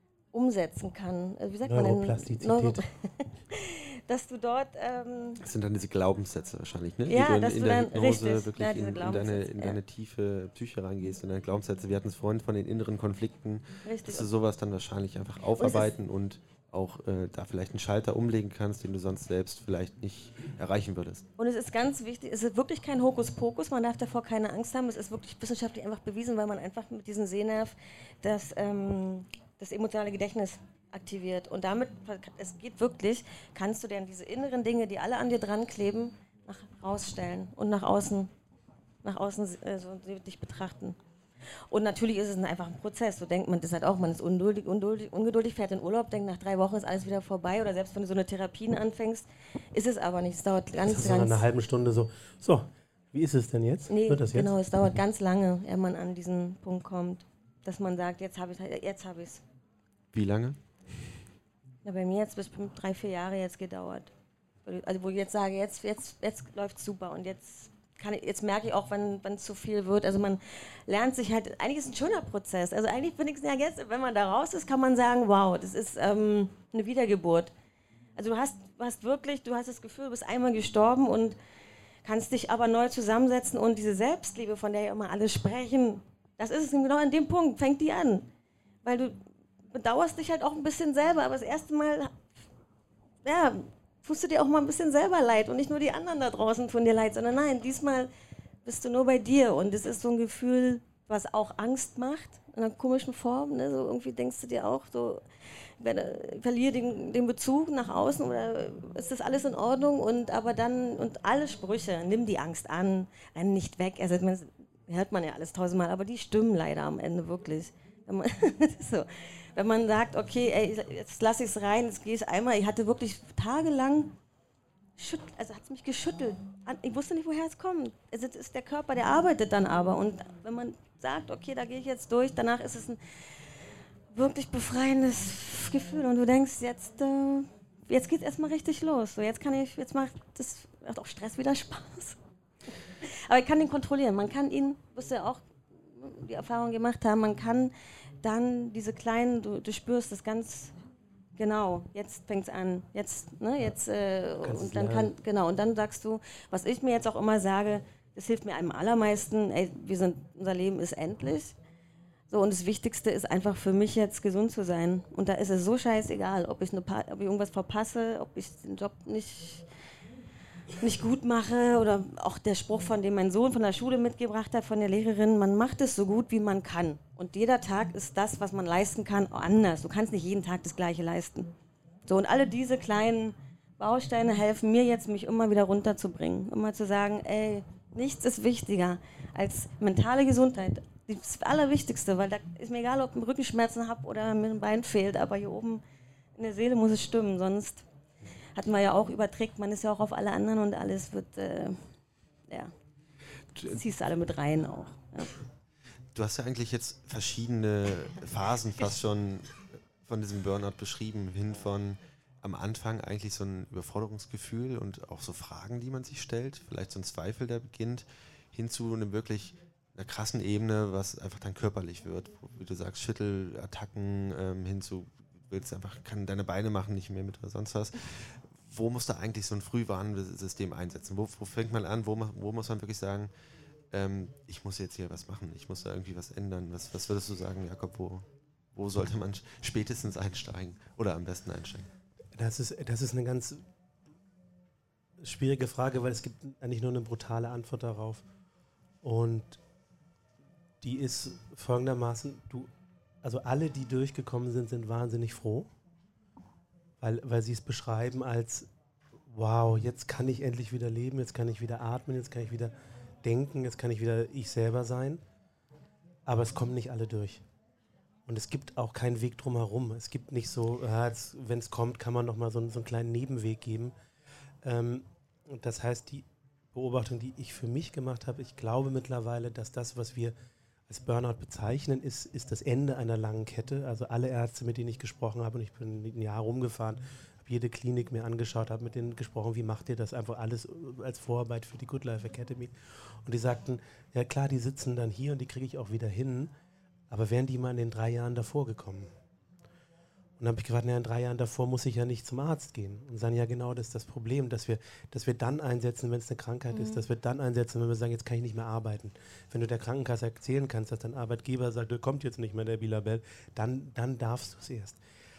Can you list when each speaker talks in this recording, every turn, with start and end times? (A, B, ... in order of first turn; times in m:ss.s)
0:00.3-0:05.4 A
0:01.6-0:02.8 B
0:05.4-0:21.2 C
0:07.1-0:09.8 A
0:13.8-0:14.3 A
0:15.6-0:15.9 A
0:21.4-0:38.3 A
0:39.0-0:41.0 A
0:41.7-0:51.4 A
0:50.8-0:54.5 B
0:53.9-0:59.4 A
1:00.1-1:01.0 C
1:01.8-1:04.1 A
1:04.6-1:17.5 A
1:18.2-1:21.4 A
1:22.0-1:28.3 A
1:28.8-1:32.2 A
1:33.2-1:38.1 A
1:38.6-1:45.2 A
1:45.8-2:04.1 A
2:05.0-2:13.5 A
2:14.1-2:22.2 A
2:22.8-2:30.7 A
2:31.4-2:41.6 A
2:34.4-2:35.1 B
2:42.3-2:49.6 A
2:50.8-3:01.5 A
3:02.1-3:15.8 A
3:16.4-3:17.8 A
3:18.5-3:21.9 A
3:22.5-3:22.7 A
3:23.6-3:25.3 A
3:26.1-3:53.3 C
3:53.9-4:01.9 C
4:02.4-4:03.6 B
4:05.2-4:08.2 B
4:09.0-4:09.6 B
4:10.8-4:12.7 B
4:13.2-4:15.7 B
4:17.0-4:18.7 B
4:19.2-4:25.2 B
4:26.2-4:27.4 B
4:28.3-4:33.9 B
4:34.6-4:40.3 B
4:40.9-4:56.5 B
4:57.1-4:59.1 B
5:00.4-5:15.0 B
5:06.7-5:07.0 A